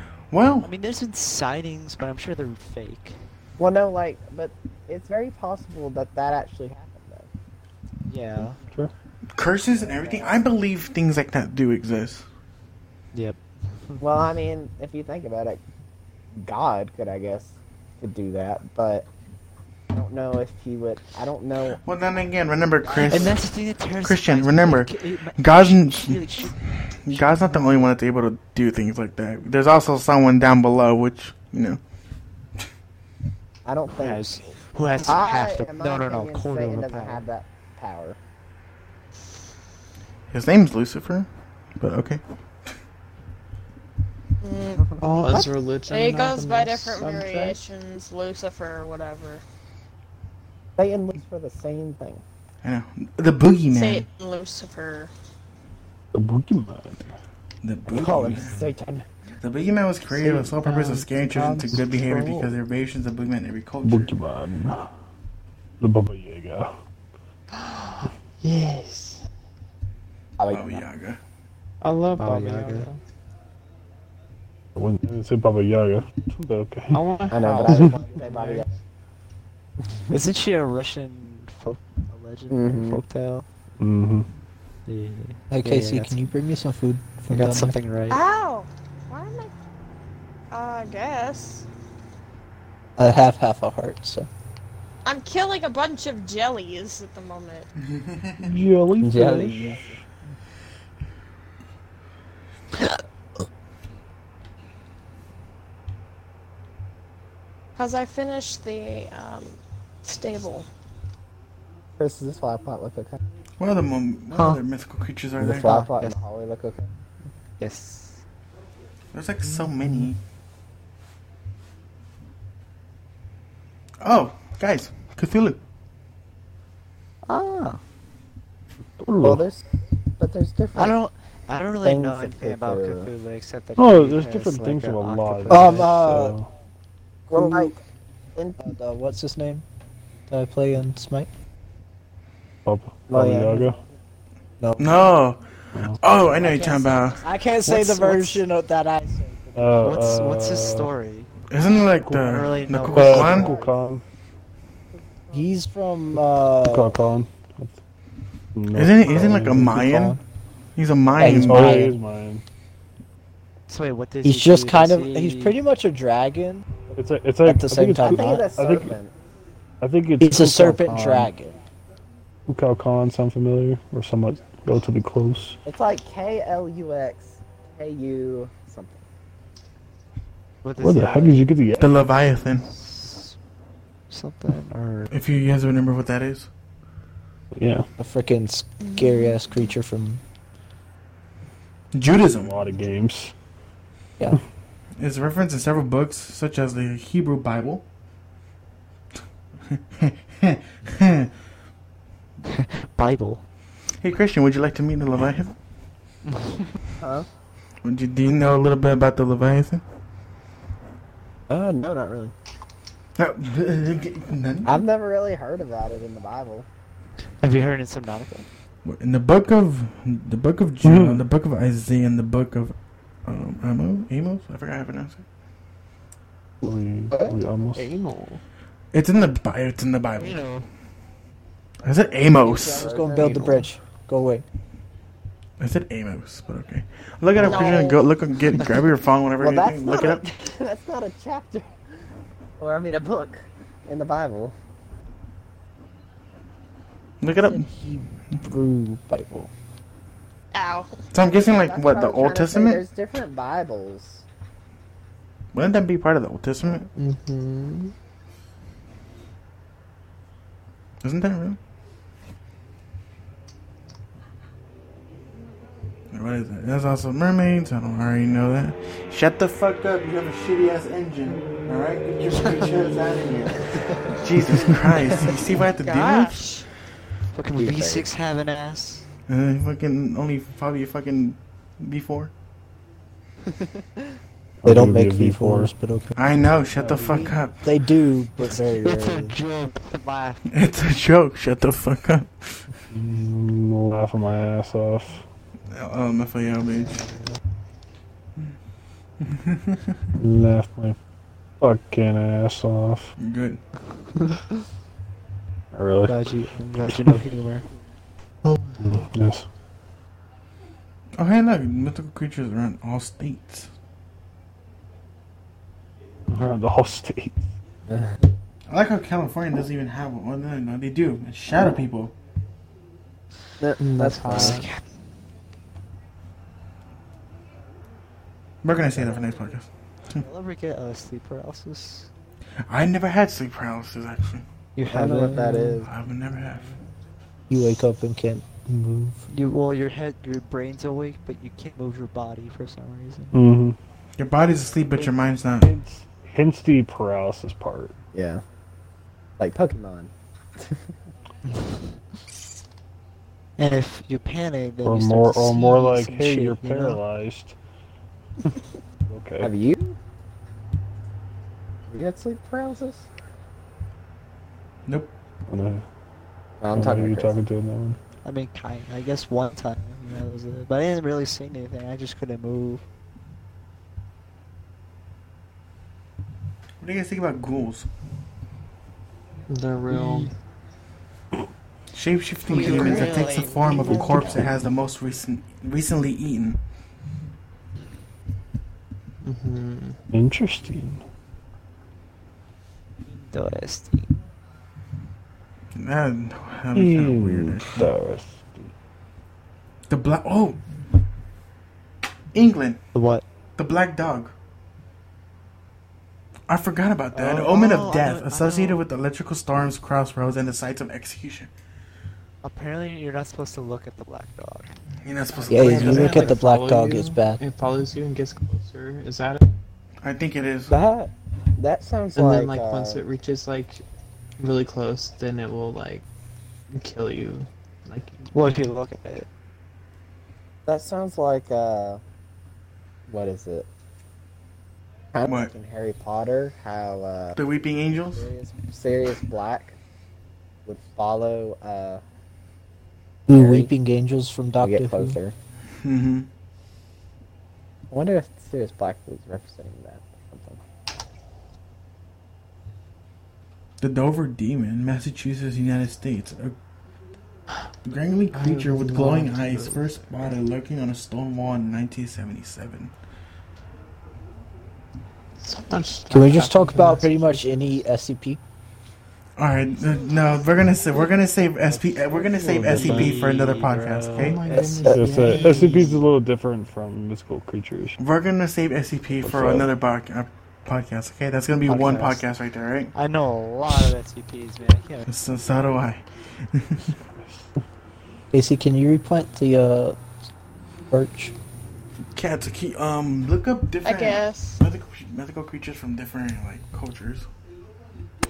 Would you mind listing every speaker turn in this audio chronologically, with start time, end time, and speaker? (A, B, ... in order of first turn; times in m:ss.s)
0:00.3-0:00.7 A
0:00.6-0:03.2 B
0:03.6-0:07.3 C
0:08.1-0:08.6 B
0:08.4-0:08.9 D
0:09.3-0:12.2 A
0:09.7-0:10.5 C
0:13.1-0:14.0 B
0:14.0-0:15.6 C
0:16.3-0:19.1 C
0:19.9-0:21.8 C
0:21.8-0:23.4 A
0:22.8-0:23.4 C
0:23.0-0:27.9 B
0:24.0-0:31.8 A
0:33.6-0:34.4 C
0:33.9-0:37.2 B
0:35.0-0:38.2 C
0:40.3-0:42.2 A
0:44.4-0:45.0 E
0:45.0-0:47.6 F
0:45.9-0:49.4 E
0:50.8-0:52.2 C
0:52.6-0:54.0 A
0:53.7-0:55.1 E
0:56.1-0:57.1 D
0:57.6-0:58.6 A
0:57.9-0:59.0 C
0:59.4-1:04.1 A
1:00.4-1:02.5 F
1:03.8-1:04.9 D
1:05.8-1:06.7 D
1:07.5-1:09.2 F
1:10.4-1:10.8 C
1:10.5-1:11.2 A
1:11.8-1:13.0 F
1:12.2-1:12.9 B
1:14.7-1:17.0 D
1:16.9-1:18.7 F
1:17.3-1:18.7 C
1:17.7-1:17.9 D
1:20.1-1:23.4 B
1:22.5-1:23.0 C
1:23.8-1:24.3 D
1:24.8-1:26.2 B
1:25.5-1:27.8 G
1:27.3-1:28.2 B
1:28.1-1:29.5 E
1:30.5-1:31.6 E
1:33.0-1:34.3 G
1:35.0-1:37.7 E
1:37.8-1:38.6 A
1:38.4-1:39.9 D
1:39.0-1:39.9 C
1:47.8-1:50.7 E
1:52.0-1:53.2 C
1:53.6-1:55.8 A
1:54.3-1:54.6 B
1:55.4-1:56.9 C
1:55.5-1:56.2 B
1:57.6-1:58.2 B
1:59.1-2:00.2 A
2:04.0-2:05.6 A
2:07.3-2:07.8 B
2:09.0-2:09.4 D
2:09.2-2:09.6 C
2:10.2-2:11.0 C
2:10.8-2:16.2 B
2:11.8-2:13.1 C
2:13.8-2:16.5 D
2:15.5-2:16.4 G
2:17.3-2:17.8 G
2:17.3-2:17.8 C
2:18.6-2:19.6 G
2:20.3-2:21.3 G
2:22.6-2:23.8 D
2:23.1-2:23.7 C
2:24.6-2:25.0 G
2:24.8-2:27.2 A
2:25.7-2:26.0 D
2:26.6-2:30.2 G
2:27.6-2:28.4 B
2:29.5-2:30.9 D
2:29.8-2:31.3 B
2:31.5-2:33.5 A
2:32.0-2:34.0 D
2:32.1-2:33.4 B
2:33.2-2:33.9 C
2:35.1-2:35.5 C
2:35.3-2:37.0 G
2:36.6-2:37.8 D
2:38.5-2:39.9 D
2:38.7-2:40.2 A
2:39.1-2:40.2 G
2:40.8-2:41.9 A
2:41.2-2:42.0 G
2:41.2-2:42.4 D
2:43.7-2:45.6 B
2:44.2-2:46.7 G
2:46.9-2:48.9 D
2:47.4-2:48.5 G
2:48.0-2:49.1 C
2:49.8-2:51.3 D
2:50.2-2:51.6 G
2:50.8-2:51.2 B
2:52.5-2:55.6 D
2:55.6-2:59.0 C
3:00.6-3:01.5 B
3:00.8-3:01.9 D
3:01.8-3:02.7 A
3:02.6-3:03.4 B
3:04.1-3:05.1 B
3:05.1-3:06.5 A
3:07.5-3:07.9 D
3:08.0-3:10.2 G
3:08.8-3:09.4 E
3:11.9-3:12.5 A
3:12.3-3:13.3 D
3:15.0-3:17.8 A
3:19.7-3:21.3 A
3:22.5-3:23.4 B
3:24.0-3:25.5 A
3:26.3-3:26.8 B
3:27.0-3:27.2 C
3:27.8-3:29.8 A
3:31.5-3:32.3 C
3:33.2-3:34.8 A
3:34.6-3:36.7 C
3:37.4-3:38.4 B
3:38.8-3:45.2 A
3:40.8-3:41.2 D
3:46.6-3:47.9 D
3:47.1-3:47.4 C
3:47.7-3:48.4 F
3:48.9-3:50.4 A
3:50.2-3:50.7 B
3:51.8-3:52.9 A
3:52.4-3:53.7 C
3:52.4-3:54.4 G
3:55.6-4:00.2 A
3:57.4-3:58.1 E
3:59.4-4:01.7 C
4:02.6-4:04.5 C
4:07.2-4:07.7 A
4:07.4-4:09.5 G
4:10.5-4:10.9 E
4:11.1-4:12.8 A
4:11.4-4:14.2 C
4:15.5-4:16.9 A
4:16.9-4:17.9 F
4:21.0-4:21.6 A
4:26.1-4:36.5 A
4:35.6-4:36.7 E
4:37.3-4:39.0 B
4:37.6-4:38.1 C
4:39.3-4:42.3 A
4:44.6-4:45.7 D
4:44.6-4:49.4 G
4:46.2-4:47.6 A
4:46.7-4:47.2 B
4:48.4-4:50.4 B
4:50.5-4:52.7 A
4:52.9-4:55.2 D
4:55.7-4:57.0 A
4:56.9-4:57.4 B
4:59.2-5:00.1 A
5:00.2-5:01.0 D
5:01.6-5:03.1 D
5:03.2-5:03.6 A
5:05.7-5:07.1 D
5:06.0-5:07.6 B
5:08.4-5:09.1 F
5:08.8-5:09.5 D
5:11.2-5:13.7 A
5:16.3-5:17.5 D
5:17.9-5:18.2 G
5:18.7-5:22.1 A
5:23.6-5:24.6 G
5:23.8-5:24.7 F
5:24.2-5:24.8 B
5:28.6-5:30.2 A
5:28.9-5:29.4 B
5:30.1-5:32.1 B
5:32.7-5:34.4 A
5:34.8-5:35.8 B
5:34.9-5:35.8 C
5:35.2-5:35.8 G
5:35.8-5:36.8 A
5:37.5-5:39.2 G
5:39.3-5:43.4 B
5:43.3-5:43.8 D
5:44.2-5:45.7 A
5:45.6-5:47.9 D
5:48.1-5:48.4 C
5:49.4-5:50.9 C
5:53.6-5:57.0 B
5:54.8-5:57.6 D
5:59.1-5:59.5 D
5:59.4-6:00.0 C
6:01.9-6:03.1 C
6:04.9-6:05.1 A
6:05.5-6:05.8 D
6:06.6-6:07.4 C
6:06.7-6:08.0 D
6:08.2-6:12.8 B
6:16.8-6:17.9 A
6:19.5-6:20.3 F
6:21.9-6:26.6 A
6:22.5-6:24.4 E
6:22.5-6:24.1 B
6:29.2-6:30.0 F
6:30.1-6:31.0 D
6:33.1-6:34.2 B
6:35.7-6:37.9 A
6:36.7-6:38.7 D
6:39.9-6:40.6 A
6:42.3-6:42.8 A
6:42.9-6:43.2 B
6:43.6-6:44.3 A
6:46.5-6:51.5 A
6:47.1-6:48.8 B
6:52.4-6:54.7 B
6:55.0-6:56.4 A
6:55.4-6:59.6 F
6:55.5-6:57.4 G
7:00.0-7:00.7 A
7:00.7-7:03.0 C
7:02.2-7:03.8 F
7:04.4-7:06.0 F
7:06.7-7:08.3 F
7:08.3-7:09.3 B
7:10.7-7:12.0 C
7:13.1-7:13.7 C
7:15.1-7:17.4 C
7:15.2-7:15.5 A
7:17.3-7:18.3 A
7:18.1-7:19.8 C
7:20.6-7:22.0 C
7:23.3-7:25.2 G
7:23.3-7:23.7 C
7:24.6-7:25.3 C
7:25.8-7:26.3 A
7:27.9-7:30.6 C
7:33.8-7:36.6 A
7:37.8-7:42.9 A
7:38.3-7:40.2 F
7:45.4-7:47.6 F
7:46.1-7:48.4 G
7:49.4-7:54.4 A
7:52.2-7:53.3 D
7:52.6-7:54.4 B
7:54.2-7:56.0 F
7:54.5-7:55.2 G
7:54.9-7:58.0 D
7:55.4-7:55.8 B
7:58.0-8:02.9 A
7:59.2-7:59.7 D
8:01.7-8:02.2 B
8:02.9-8:05.1 B
8:05.1-8:06.9 A
8:07.2-8:07.6 D
8:08.3-8:10.0 G
8:10.9-8:11.3 G
8:12.1-8:17.3 A
8:13.8-8:14.6 E